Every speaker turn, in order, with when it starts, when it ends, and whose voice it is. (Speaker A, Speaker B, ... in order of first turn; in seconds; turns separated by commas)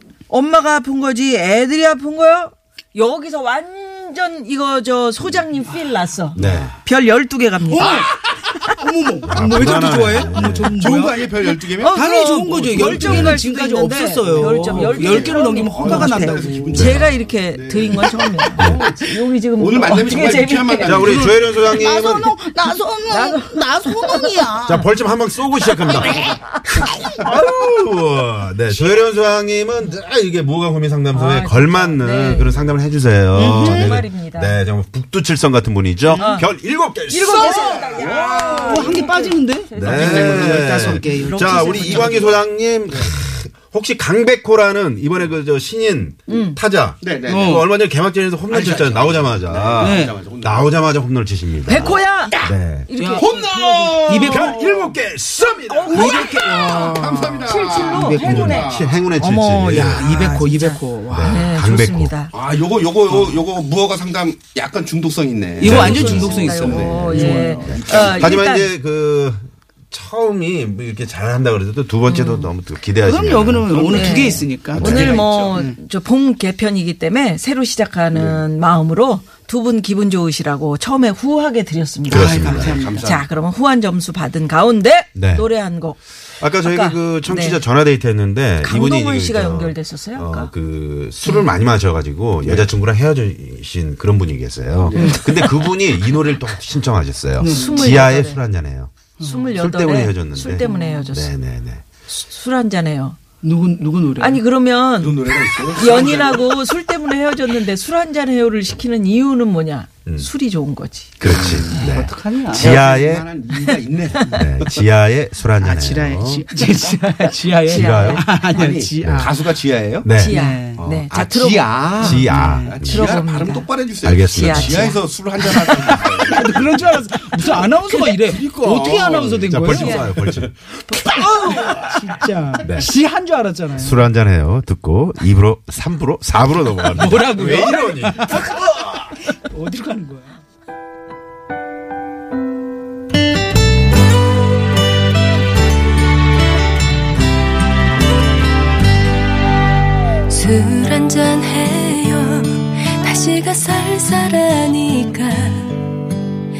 Speaker A: 0.3-8.1, Speaker B: 6.4-6.7, Speaker C: 6.4-6.7, Speaker B: 7.7-16.9, Speaker C: 9.2-10.7, Speaker D: 10.8-13.3, Speaker A: 11.7-21.2, Speaker C: 13.0-13.4, Speaker D: 14.2-21.6, Speaker C: 16.7-17.1, Speaker C: 18.6-18.8, Speaker C: 20.8-22.4, Speaker B: 21.0-24.9, Speaker A: 23.1-24.5, Speaker C: 24.6-39.0, Speaker B: 25.8-27.1, Speaker A: 31.1-32.6, Speaker B: 33.3-34.0, Speaker A: 33.4-34.6, Speaker B: 36.1-36.4, Speaker A: 36.2-36.5, Speaker A: 37.1-40.3, Speaker D: 37.4-38.4, Speaker B: 38.2-42.4, Speaker C: 39.7-56.3, Speaker D: 39.9-41.1, Speaker A: 41.3-42.3, Speaker A: 46.3-46.6, Speaker D: 47.0-47.6, Speaker B: 47.3-47.6, Speaker D: 48.5-50.7, Speaker B: 49.8-50.1, Speaker A: 51.6-52.4, Speaker D: 51.7-52.5, Speaker A: 52.9-54.5, Speaker B: 53.0-53.2, Speaker D: 53.2-53.5, Speaker B: 54.0-54.6, Speaker D: 54.3-54.9, Speaker A: 55.7-62.3, Speaker B: 55.9-58.6, Speaker D: 55.9-59.0, Speaker C: 58.2-60.5, Speaker B: 59.7-61.5, Speaker C: 61.1-62.1, Speaker D: 62.3-68.4, Speaker B: 63.1-63.4, Speaker B: 65.6-68.0, Speaker C: 65.6-75.2, Speaker A: 65.7-68.7, Speaker A: 72.1-72.5, Speaker B: 73.0-75.8, Speaker D: 73.8-74.1, Speaker A: 73.9-82.4, Speaker D: 74.8-75.5, Speaker D: 78.1-78.4, Speaker C: 82.1-82.8, Speaker B: 82.1-83.1, Speaker D: 82.4-83.2, Speaker A: 83.0-86.0, Speaker C: 85.2-85.5, Speaker C: 86.4-98.9, Speaker A: 86.6-87.6, Speaker A: 88.6-90.5, Speaker A: 91.2-91.5, Speaker D: 92.4-92.7, Speaker D: 94.8-95.2, Speaker B: 94.9-95.5, Speaker B: 97.4-97.9, Speaker A: 97.5-98.4, Speaker B: 99.2-99.5, Speaker A: 99.2-101.3, Speaker C: 99.5-101.8, Speaker B: 100.6-101.1, Speaker A: 102.1-103.2, Speaker B: 103.4-104.4, Speaker A: 104.2-111.9, Speaker D: 105.0-106.6, Speaker C: 111.2-113.3, Speaker D: 111.2-111.9, Speaker B: 111.3-113.0, Speaker D: 112.5-114.8, Speaker B: 113.7-114.4, Speaker C: 114.2-116.5, Speaker B: 115.6-119.4, Speaker C: 117.7-118.3, Speaker A: 117.7-118.4, Speaker D: 118.5-120.1, Speaker C: 119.0-119.3, Speaker C: 120.0-120.4, Speaker A: 120.1-122.2, Speaker B: 120.3-120.8, Speaker D: 120.8-126.7, Speaker C: 122.0-123.2, Speaker B: 122.1-122.8, Speaker A: 122.8-123.7, Speaker C: 124.0-124.9, Speaker A: 124.3-125.0, Speaker B: 125.4-130.1, Speaker D: 127.3-129.5, Speaker C: 128.9-132.1, Speaker A: 129.7-130.1, Speaker D: 130.2-130.5, Speaker B: 130.9-134.1, Speaker C: 132.6-132.9, Speaker C: 133.8-139.1, Speaker B: 136.9-138.6, Speaker B: 139.3-140.3, Speaker E: 150.3-155.9